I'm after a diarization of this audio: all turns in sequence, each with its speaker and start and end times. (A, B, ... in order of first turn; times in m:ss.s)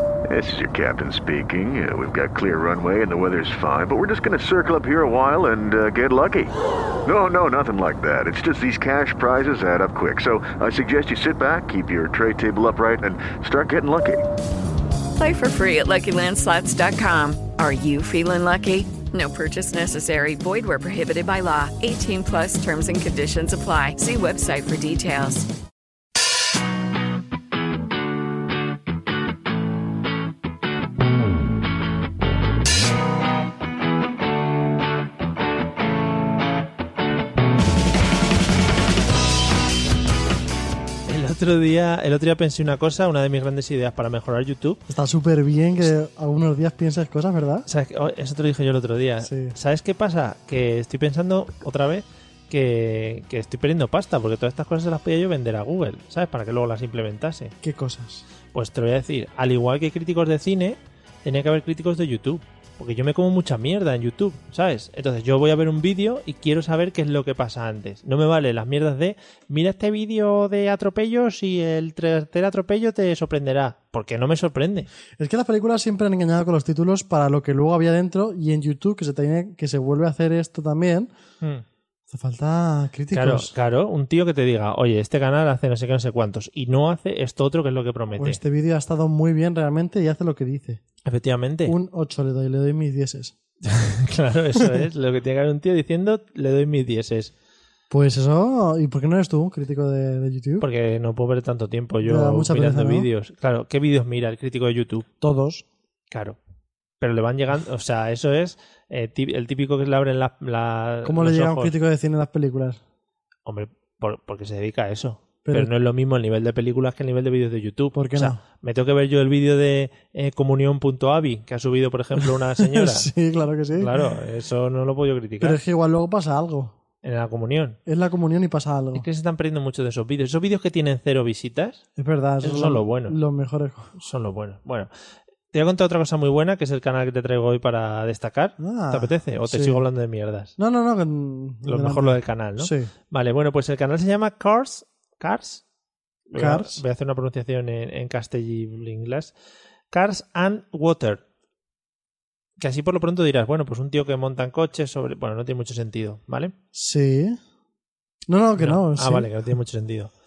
0:00.3-0:06.5 A
0:07.0-0:14.2 A
0:15.2-0:25.5 B
0:41.1-0:44.8 C
0:44.9-0:47.7 D
0:47.7-0:57.5 C
0:49.2-0:49.6 D
0:57.6-0:58.2 D
0:58.5-1:14.9 C
1:15.2-1:21.1 D
1:22.1-1:23.5 D
1:23.1-1:28.4 C
1:28.2-1:30.8 D
1:31.0-1:31.8 C
1:31.7-1:33.3 D
1:33.6-1:37.3 C
1:37.9-1:40.7 D
1:40.6-1:45.1 C
1:42.0-1:43.1 D
1:45.2-1:45.6 D
1:46.1-1:46.4 C
1:47.0-1:51.7 C
1:51.0-1:52.8 D
1:53.5-2:03.1 C
1:55.4-1:55.7 D
1:57.9-1:58.4 D
2:02.2-2:04.0 D
2:03.8-2:05.6 C
2:05.4-2:06.8 D
2:07.0-2:07.8 C
2:07.9-2:09.0 D
2:08.9-2:11.8 C
2:12.0-2:13.9 D
2:12.4-2:13.2 C
2:14.0-2:14.9 C
2:15.5-2:20.5 C
2:18.6-2:19.8 D
2:20.6-2:22.9 D
2:21.6-2:25.6 C
2:26.3-2:29.3 C
2:26.4-2:26.8 D
2:29.9-2:31.2 C
2:32.6-2:36.5 C
2:36.7-2:37.4 D
2:38.3-2:39.3 D
2:38.6-2:40.1 C